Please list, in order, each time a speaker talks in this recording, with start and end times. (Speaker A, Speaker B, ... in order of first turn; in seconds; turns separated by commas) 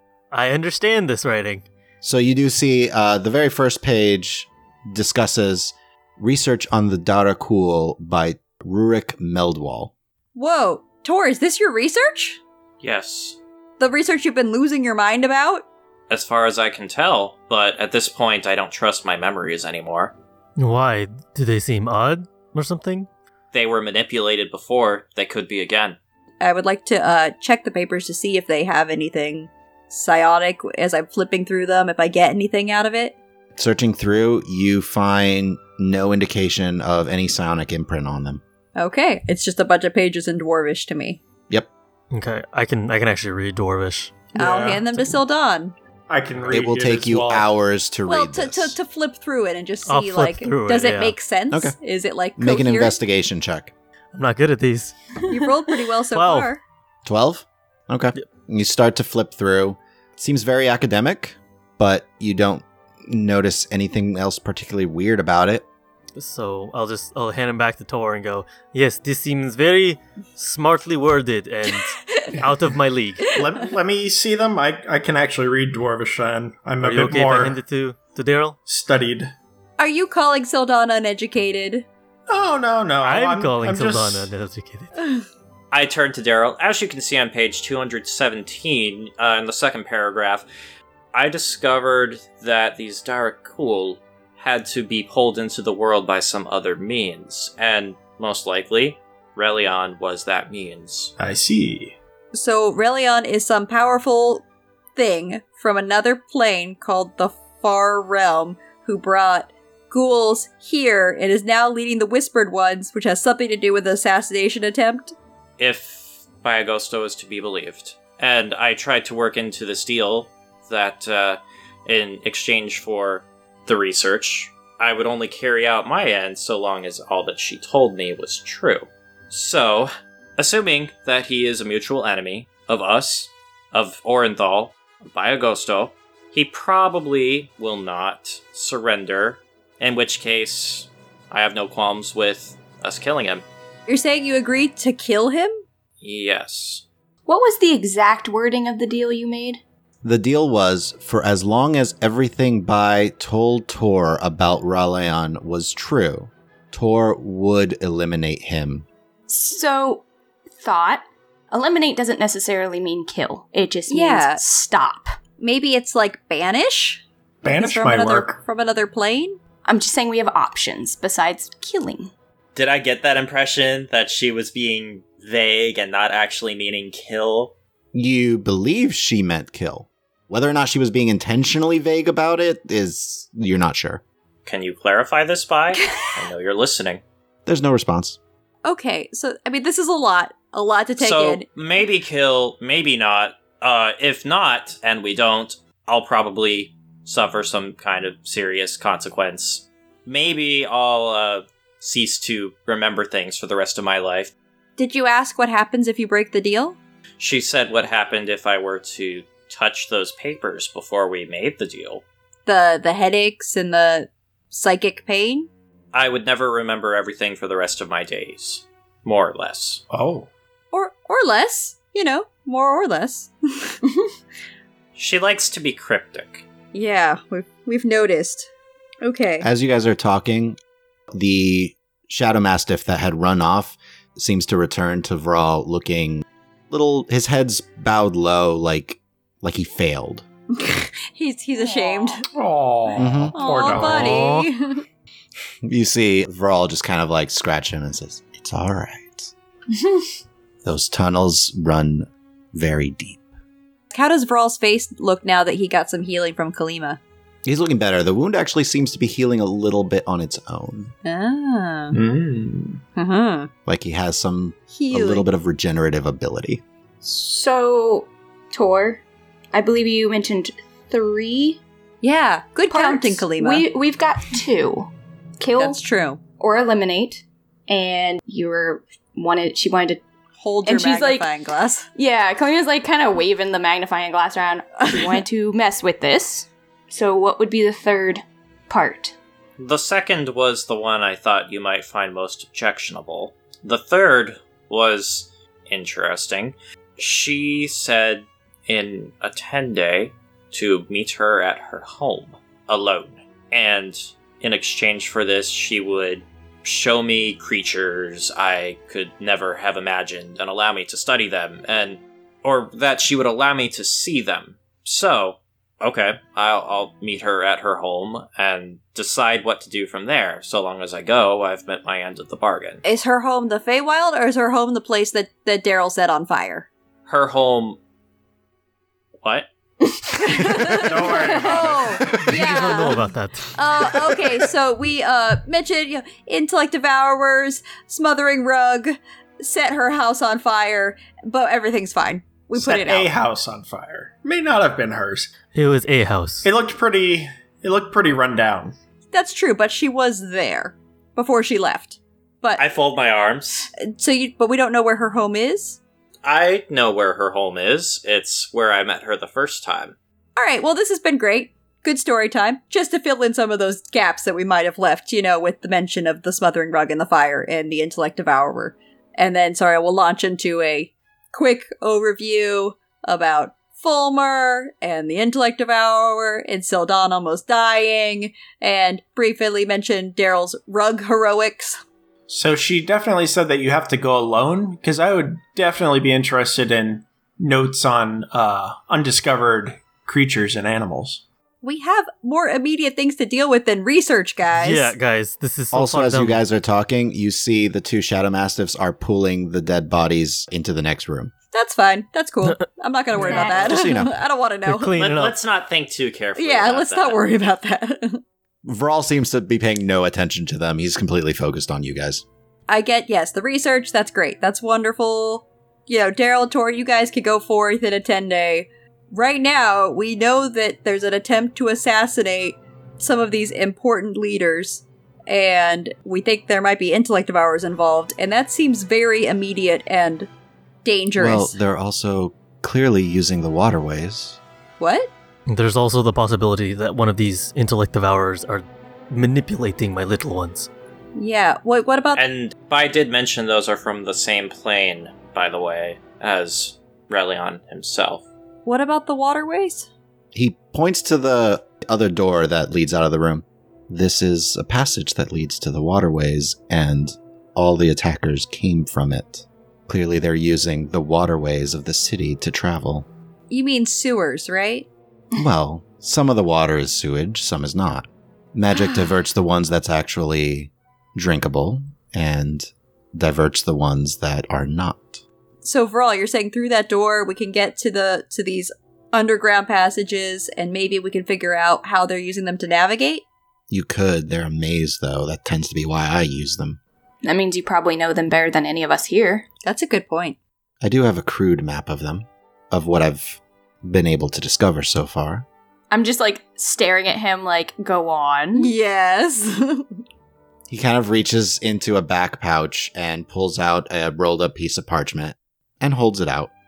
Speaker A: 0.3-1.7, Speaker B: 2.0-9.9, Speaker C: 10.4-12.4, Speaker D: 12.8-13.4, Speaker C: 13.8-15.7, Speaker D: 16.1-20.1, Speaker A: 20.6-23.1, Speaker D: 23.5-26.0, Speaker C: 26.4-33.2, Speaker B: 33.6-38.4, Speaker C: 38.8-41.2, Speaker A: 42.1-44.3, Speaker E: 44.4-44.9, Speaker C: 44.4-45.7, Speaker E: 46.1-47.5, Speaker B: 46.5-48.8, Speaker C: 48.1-53.0, Speaker A: 49.9-51.1, Speaker B: 52.4-53.7, Speaker A: 54.1-55.0, Speaker C: 55.3-56.6, Speaker A: 56.1-56.5, Speaker B: 57.0-65.7, Speaker A: 66.2-73.4, Speaker C: 71.9-72.3, Speaker E: 73.3-77.6, Speaker A: 76.8-78.6, Speaker E: 78.7-79.3, Speaker C: 79.8-81.9, Speaker E: 82.3-84.3, Speaker A: 83.0-84.9, Speaker D: 85.7-90.5, Speaker D: 91.1-101.1, Speaker E: 101.2-101.9, Speaker C: 102.3-104.5, Speaker C: 105.0-115.1, Speaker D: 115.6-143.4, Speaker C: 143.9-145.6, Speaker D: 146.0-146.8, Speaker F: 147.3-149.6, Speaker B: 150.0-158.9, Speaker F: 159.3-165.2, Speaker C: 163.9-164.4, Speaker C: 165.4-169.4, Speaker E: 167.4-168.4, Speaker F: 169.7-172.1, Speaker D: 172.6-177.5, Speaker B: 177.9-184.0, Speaker D: 184.5-187.0, Speaker B: 187.5-188.2, Speaker C: 188.7-191.4, Speaker D: 191.0-204.3, Speaker C: 204.8-206.8, Speaker D: 207.2-212.0, Speaker C: 212.5-215.5, Speaker D: 215.9-219.8, Speaker E: 219.9-220.3, Speaker C: 220.7-223.8, Speaker D: 225.0-226.4, Speaker C: 226.7-228.5, Speaker C: 229.0-229.5, Speaker B: 229.4-230.6, Speaker B: 231.1-240.2, Speaker C: 240.5-242.2, Speaker F: 241.6-242.2, Speaker E: 242.2-244.3, Speaker B: 243.0-244.1, Speaker C: 243.3-244.8, Speaker A: 243.9-244.5, Speaker B: 245.6-249.3, Speaker F: 249.8-250.1, Speaker B: 250.6-253.3, Speaker C: 253.9-257.0, Speaker B: 257.4-260.9, Speaker C: 261.0-261.9, Speaker E: 261.9-262.8, Speaker C: 263.0-263.5, Speaker B: 263.7-266.6, Speaker C: 264.7-265.2, Speaker F: 267.0-271.6, Speaker C: 272.0-273.6, Speaker F: 272.7-275.8, Speaker C: 275.6-276.2, Speaker F: 276.4-280.0, Speaker C: 280.4-281.9, Speaker F: 280.6-281.3, Speaker F: 281.9-289.1, Speaker D: 289.6-322.8, Speaker C: 322.8-326.7, Speaker D: 327.1-327.8, Speaker D: 329.2-329.5, Speaker C: 330.1-343.1, Speaker D: 330.7-332.0, Speaker E: 330.8-331.9, Speaker A: 332.0-333.6, Speaker E: 342.6-345.3, Speaker A: 345.5-346.5, Speaker E: 346.4-348.8, Speaker C: 349.1-352.6, Speaker D: 352.6-353.7, Speaker C: 353.9-355.8, Speaker D: 356.2-359.9, Speaker C: 360.4-381.8, Speaker E: 382.3-391.2, Speaker C: 391.6-395.0, Speaker A: 394.6-396.4, Speaker B: 395.7-401.3, Speaker C: 401.5-404.9, Speaker A: 403.2-403.5, Speaker F: 403.2-403.9, Speaker B: 403.6-404.1, Speaker A: 404.6-405.4, Speaker D: 405.0-407.2, Speaker C: 406.4-408.2, Speaker B: 408.7-412.2, Speaker C: 412.7-430.3, Speaker C: 430.9-431.6, Speaker B: 431.2-434.4, Speaker C: 434.8-435.1, Speaker A: 435.5-440.7, Speaker C: 441.2-442.2, Speaker D: 442.1-448.3, Speaker C: 448.7-449.9, Speaker B: 450.3-463.1, Speaker C: 463.5-464.9, Speaker B: 465.3-475.2, Speaker C: 475.6-483.2, Speaker B: 483.7-486.8, Speaker F: 487.2-489.5, Speaker C: 489.6-490.4, Speaker B: 490.8-495.5, Speaker F: 495.9-498.7, Speaker C: 498.6-500.0, Speaker B: 500.7-506.5